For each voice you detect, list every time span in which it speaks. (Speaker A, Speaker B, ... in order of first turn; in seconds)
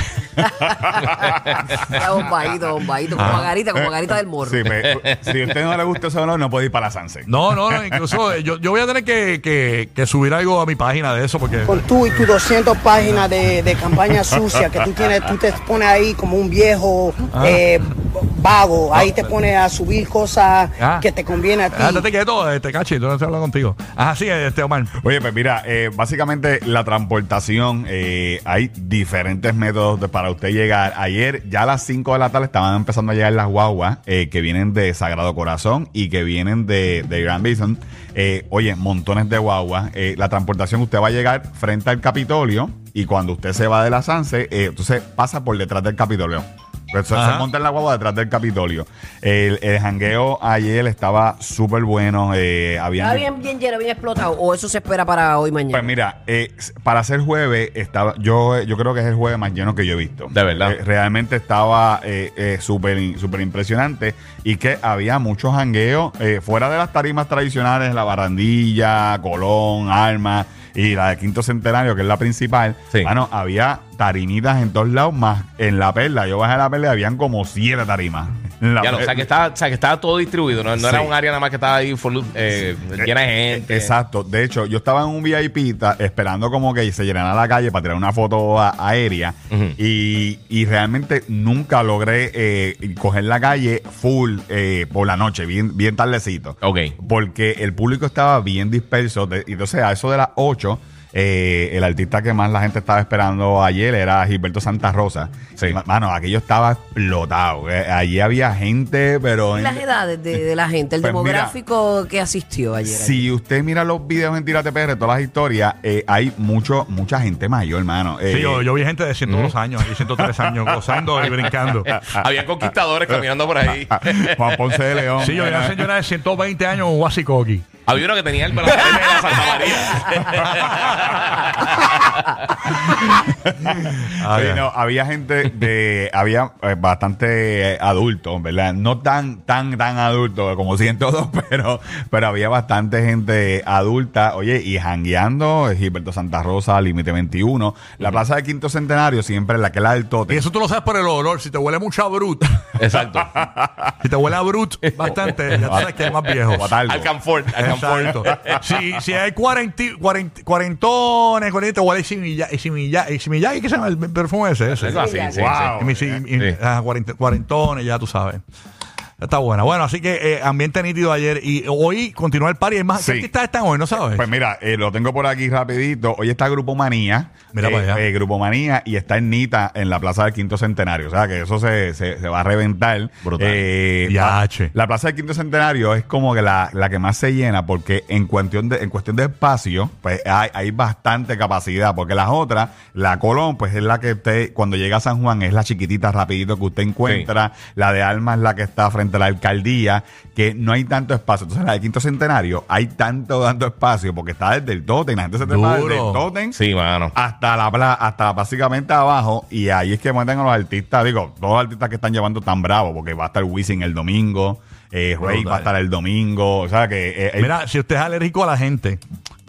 Speaker A: 0.4-1.8, 4.4-8.0, 25.0-53.3, 55.7-79.3, 80.8-81.1, 83.0-110.4, 111.0-111.5, 112.8-118.7, 120.1-120.5, 124.3-125.8, 132.7-150.4, 153.3-153.9, 155.6-155.9, 156.5-157.1, 165.2-166.2, 172.9-173.3, 174.0-206.6, 207.1-217.5
Speaker B: 0.5-1.2, 1.8-4.7, 53.0-55.9, 109.5-113.3, 164.8-165.6
Speaker C: 3.2-3.5, 7.3-12.3, 12.9-13.3, 17.3-17.7, 18.9-19.3, 20.8-21.1, 21.7-24.9, 47.1-47.5, 118.3-122.0, 125.2-127.7, 134.0-134.6, 150.3-152.6, 154.0-156.7, 157.5-165.0, 165.7-168.4, 169.2-174.2, 177.5-178.0, 184.1-184.7, 205.4-206.2, 215.3-215.7, 217.4-219.0
Speaker D: 11.6-22.0
Speaker E: 60.3-60.8, 78.8-83.9, 96.6-96.9, 119.3-119.6, 122.0-125.0, 127.8-132.7, 152.8-153.4, 154.9-158.6, 164.8-165.8, 183.2-183.6, 206.5-207.1